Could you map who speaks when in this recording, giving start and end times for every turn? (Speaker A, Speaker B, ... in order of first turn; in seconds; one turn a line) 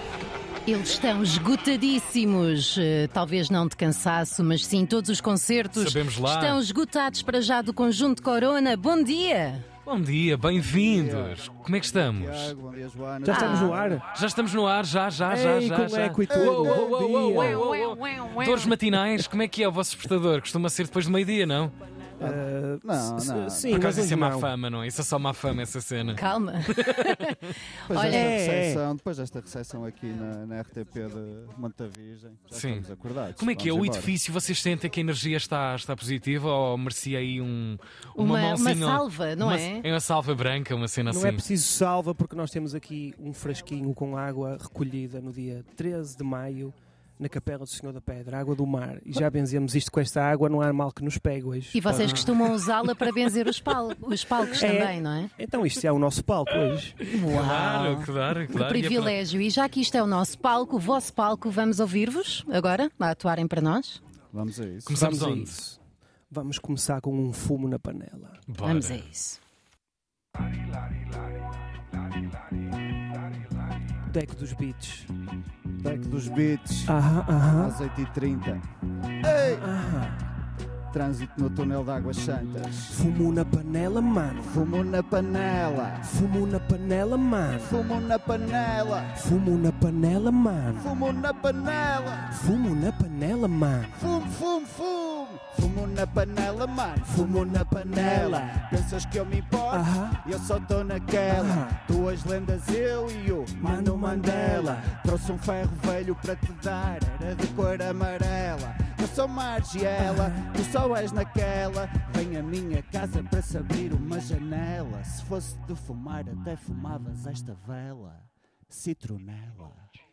Speaker A: 0.7-9.7
Speaker B: 5.8-6.6
Speaker B: 9.9-12.6
Speaker C: 10.8-11.4
Speaker C: 12.0-13.8
Speaker D: 13.2-14.1
Speaker A: 13.3-14.0
Speaker B: 14.1-21.7
Speaker D: 15.3-17.6
Speaker C: 16.3-17.0
Speaker A: 17.3-18.8
Speaker D: 22.2-24.5
Speaker C: 22.2-24.0
Speaker B: 23.7-27.5
Speaker A: 26.1-28.3
Speaker C: 27.9-34.1
Speaker D: 28.0-28.8
Speaker B: 32.5-32.9
Speaker B: 33.4-41.4
Speaker A: 38.2-39.9
Speaker D: 41.1-52.0
Speaker A: 51.7-55.3
Speaker C: 51.9-52.3
Speaker B: 51.9-52.3
Speaker D: 54.6-57.0
Speaker A: 57.1-64.0
Speaker B: 57.2-59.1
Speaker C: 64.3-65.0
Speaker B: 64.9-65.6
Speaker D: 64.9-65.8
Speaker D: 66.3-68.4
Speaker B: 68.5-69.0
Speaker A: 68.6-69.4
Speaker D: 74.1-75.1
Speaker C: 75.8-76.9
Speaker D: 76.9-77.8
Speaker C: 77.5-78.6
Speaker C: 79.2-79.7
Speaker D: 79.3-80.3
Speaker C: 80.9-83.0
Speaker D: 82.9-84.6
Speaker C: 84.4-86.0
Speaker D: 86.0-87.8
Speaker C: 87.6-89.1
Speaker D: 89.2-90.9
Speaker C: 90.8-92.3
Speaker D: 92.3-94.0
Speaker C: 94.0-119.8
Speaker D: 97.0-98.6
Speaker D: 99.7-100.2
Speaker D: 101.3-101.8
Speaker D: 103.6-105.0
Speaker D: 110.0-110.5